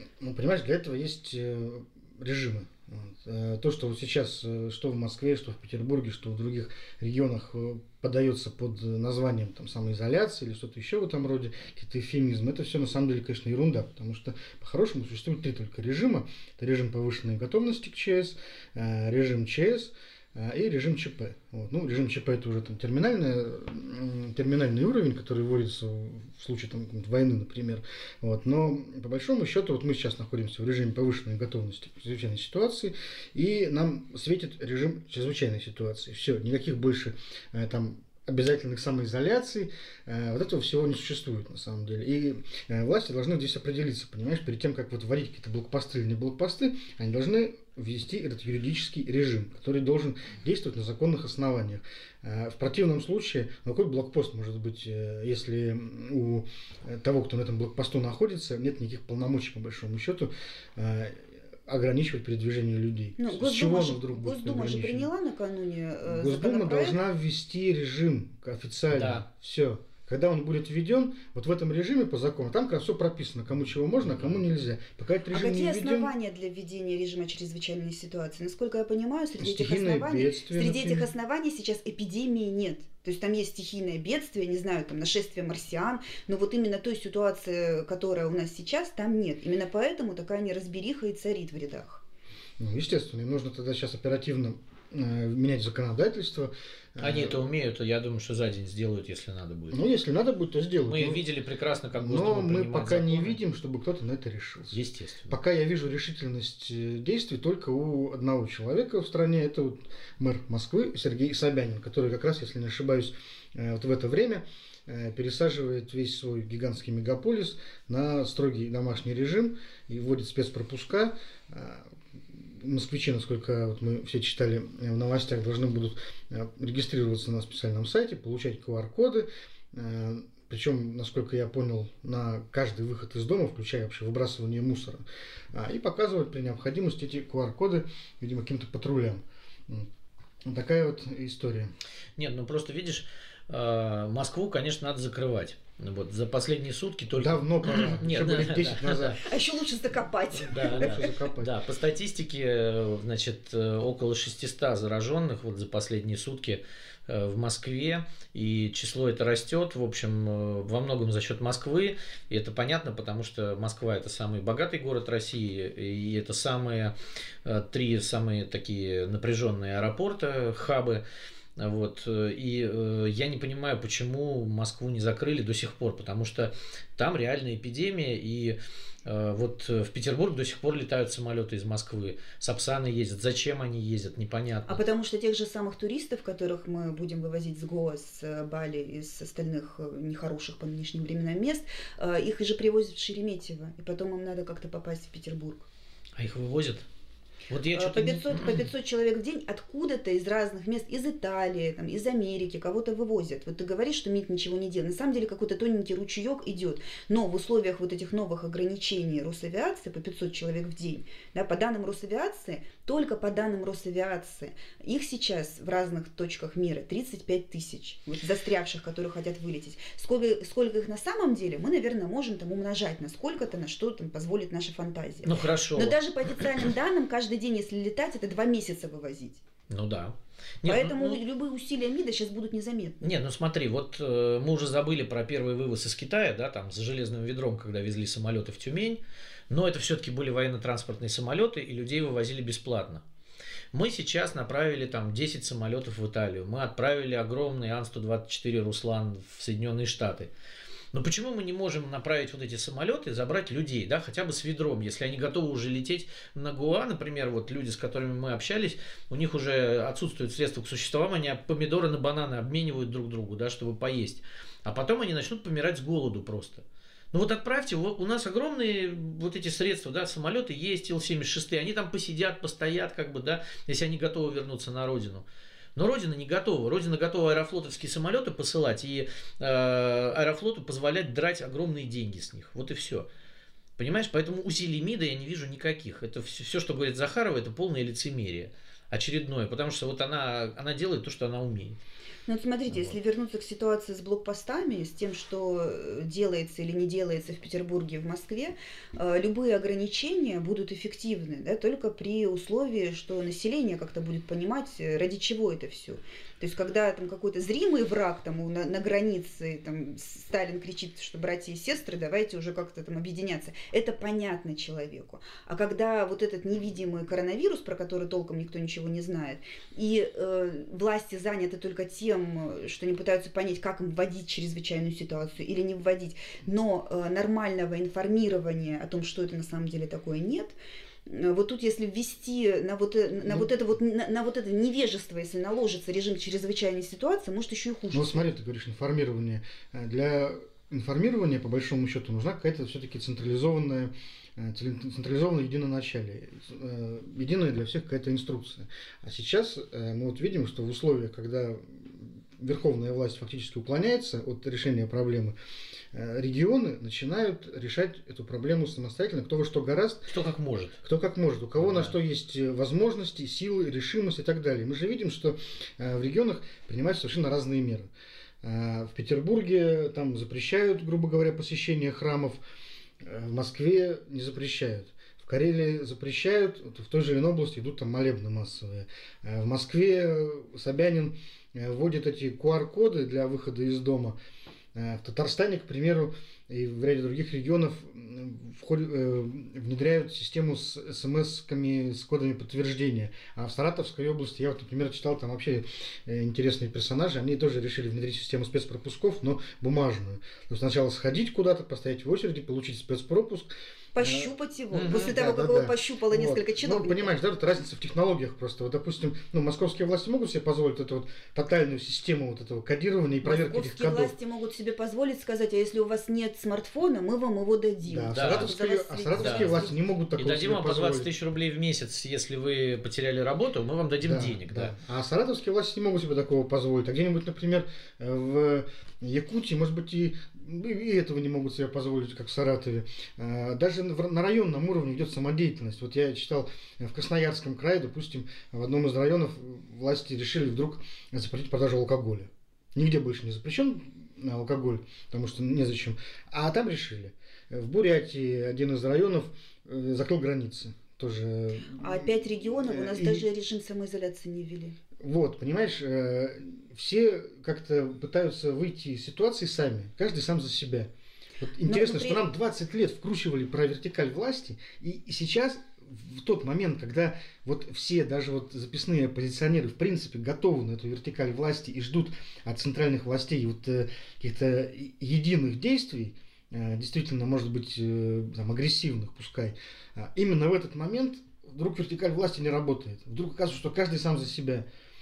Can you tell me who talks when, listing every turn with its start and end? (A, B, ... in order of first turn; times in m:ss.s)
0:00.2-1:05.1 A
1:03.2-1:07.0 B
1:06.0-1:16.1 A
1:08.9-1:09.2 C
1:14.1-1:14.4 C
1:15.3-1:32.0 B
1:19.4-1:21.1 A
1:32.6-1:37.4 A
1:37.0-1:39.8 C
1:39.7-1:41.2 A
1:40.8-1:43.4 C
1:42.0-2:19.9 A
1:44.7-1:45.3 C
2:20.4-2:21.7 A
2:22.2-2:29.2 C
2:27.2-2:29.2 A
2:29.2-2:31.0 B
2:30.5-2:46.9 C
2:30.7-2:31.5 A
2:47.4-2:51.0 C
2:51.6-3:04.8 C
3:04.7-3:15.7 B
3:16.2-3:16.8 C
3:17.5-3:18.7 C
3:17.7-3:49.4 B
3:45.2-3:46.0 C
3:49.7-3:51.2 C
3:50.6-3:53.1 B
3:53.0-4:03.0 C
4:03.7-4:10.3 C
4:10.9-4:35.2 C
4:35.8-4:43.1 C
4:43.8-4:51.8 C
4:52.3-5:30.5 B
5:31.0-5:38.3 B
5:37.9-5:55.3 A
5:55.9-6:00.1 A
6:00.1-6:00.8 C
6:00.8-6:07.9 A
6:01.6-6:01.9 C
6:08.4-6:12.4 A
6:13.0-6:24.2 A
6:24.7-6:54.1 A
6:43.9-6:47.1 B
6:44.8-6:45.0 C
6:53.2-6:59.8 B
6:57.8-7:01.1 A
6:58.1-6:58.5 C
6:59.2-6:59.6 C
7:00.2-7:04.7 C
7:04.0-7:33.2 A
7:31.8-7:34.8 B
7:35.0-8:04.6 A
7:41.6-7:42.2 B